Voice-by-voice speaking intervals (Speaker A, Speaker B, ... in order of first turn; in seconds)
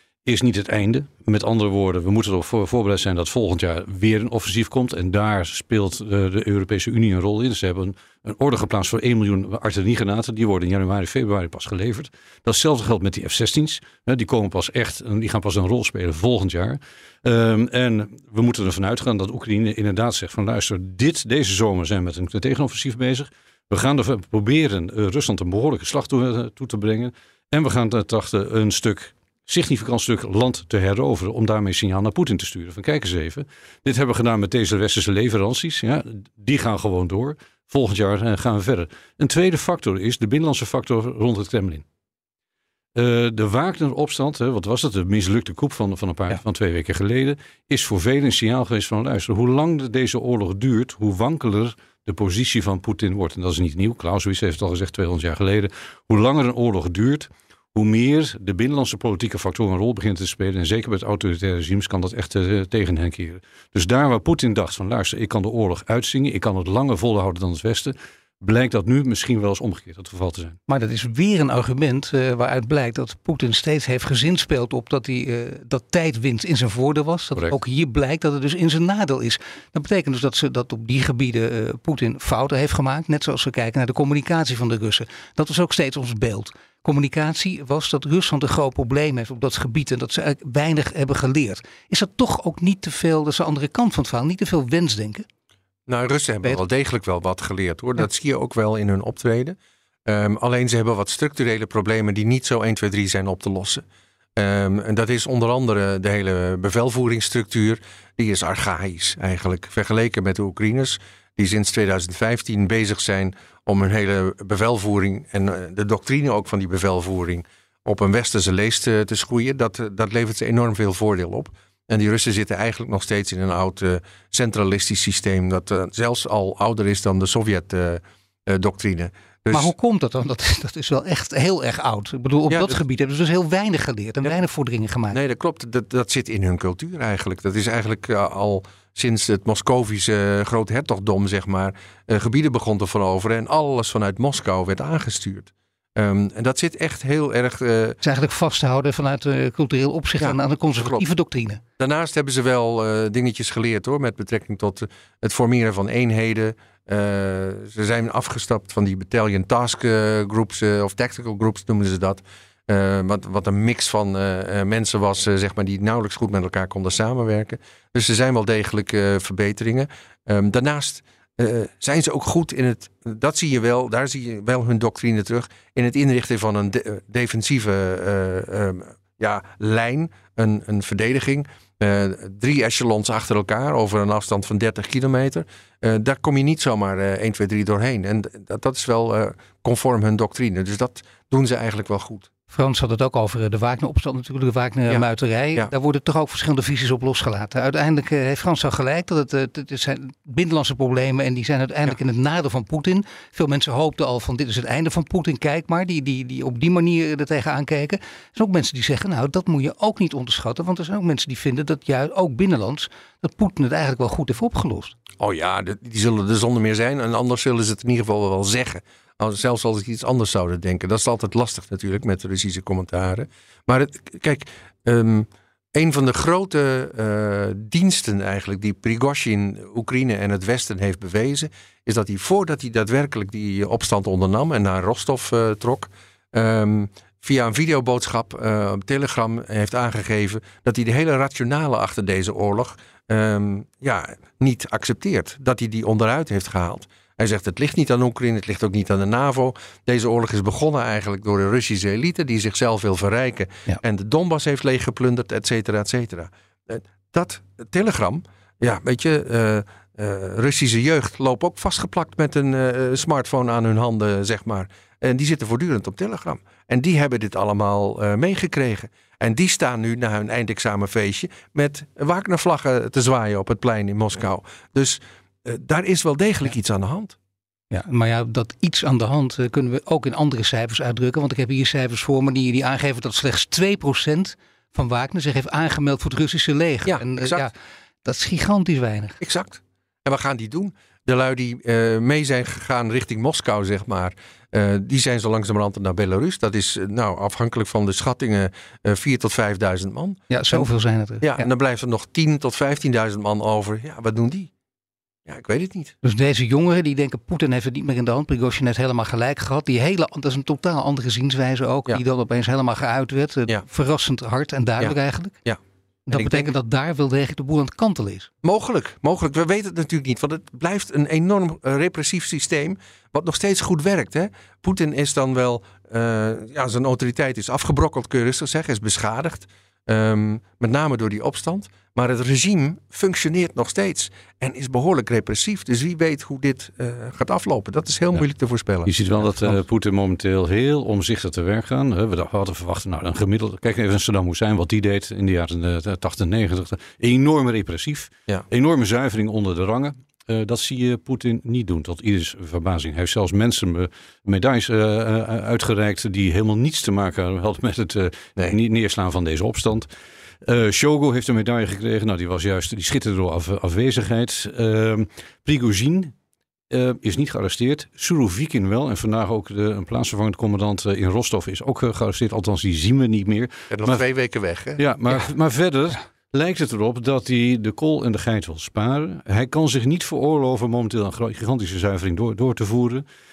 Speaker A: 0.3-41.8, 43.0-70.6, 338.9-359.9, 360.4-366.1, 366.7-374.0, 374.8-383.0
Speaker B: 70.7-95.2, 129.5-135.2, 148.0-151.6, 192.5-214.9, 277.7-287.5, 288.0-289.2, 300.3-301.5, 306.0-315.4, 316.1-318.3
Speaker C: 95.9-103.8, 104.4-129.7, 132.5-132.8, 135.1-148.0, 150.2-151.1, 151.8-192.3, 194.9-195.7, 215.2-277.1, 286.9-287.5, 289.2-300.7, 301.2-304.5, 305.3-306.0, 314.8-316.5, 318.4-339.6, 373.7-374.8